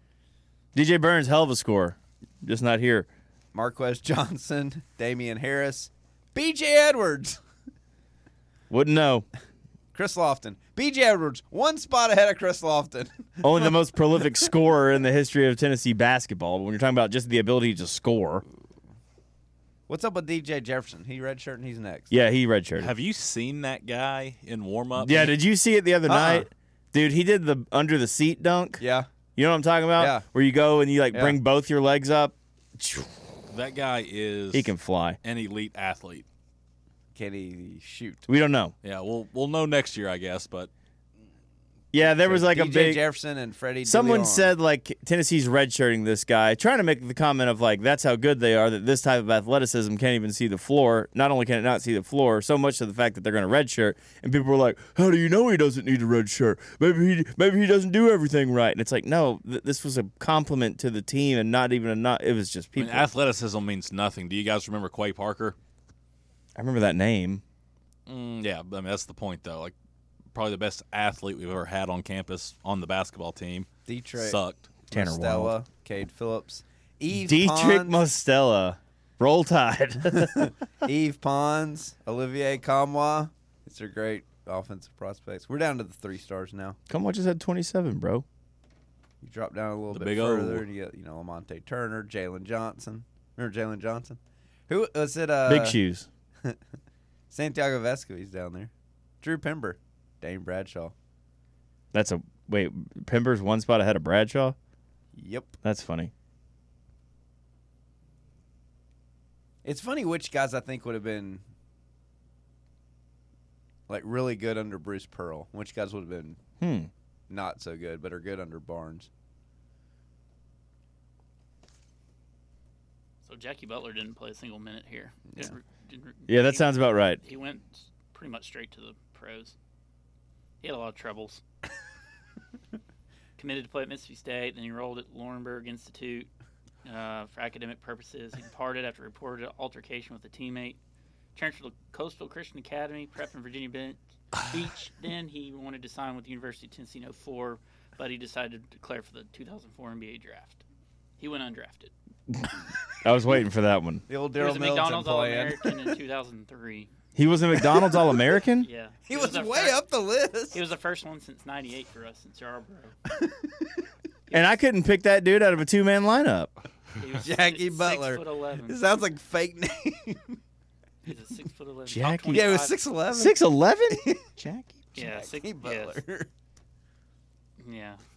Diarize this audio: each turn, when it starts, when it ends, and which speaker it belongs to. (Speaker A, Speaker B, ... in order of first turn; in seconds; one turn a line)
Speaker A: 0.7-3.1
Speaker B: 3.5-7.4
Speaker A: 8.7-9.3
Speaker B: 9.9-13.7
Speaker A: 13.4-18.4
Speaker B: 19.9-22.1
Speaker A: 22.1-22.9
Speaker C: 22.8-25.3
Speaker A: 25.0-28.8
Speaker B: 26.1-26.5
Speaker B: 28.8-29.1
Speaker A: 29.4-33.1
Speaker B: 30.0-30.2
Speaker B: 31.1-31.4
Speaker C: 33.5-36.2
Speaker A: 34.5-35.2
Speaker B: 37.1-38.3
Speaker A: 38.3-38.7
Speaker C: 38.8-40.7
Speaker A: 41.9-43.0
Speaker B: 42.2-44.5
Speaker A: 43.8-63.1
Speaker C: 62.8-65.5
Speaker A: 66.5-67.4
Speaker C: 68.1-69.8
Speaker C: 70.3-74.7
Speaker B: 73.8-74.4
Speaker B: 74.9-78.0
Speaker A: 74.9-75.5
Speaker A: 77.1-80.5
Speaker B: 80.1-86.8
Speaker A: 86.9-88.2
Speaker B: 89.2-95.8
Speaker C: 89.9-90.6
Speaker A: 95.5-96.1
Speaker B: 97.3-100.9
Speaker A: 101.9-104.5
Speaker B: 105.1-105.5
Speaker A: 105.6-106.1
Speaker B: 109.6-111.4
Speaker B: 113.9-116.4
Speaker A: 116.6-116.9
Speaker B: 117.3-119.1
Speaker D: 123.2-129.5
Speaker A: 126.3-127.2
Speaker D: 130.6-131.4
Speaker D: 133.4-136.3
Speaker D: 136.8-140.8
Speaker D: 141.3-150.6
Speaker D: 151.2-151.9
Speaker A: 153.0-154.0
Speaker B: 154.1-155.7
Speaker D: 154.3-156.9
Speaker A: 157.1-158.7
Speaker D: 158.5-159.8
Speaker B: 159.1-160.6
Speaker D: 160.5-162.9
Speaker A: 164.3-166.5
Speaker D: 167.0-168.8
Speaker B: 167.2-170.4
Speaker D: 171.0-172.9
Speaker A: 171.9-172.5
Speaker B: 172.3-173.4
Speaker A: 173.1-174.9
Speaker B: 173.9-174.2
Speaker D: 174.9-176.0
Speaker B: 174.9-176.3
Speaker D: 177.6-178.0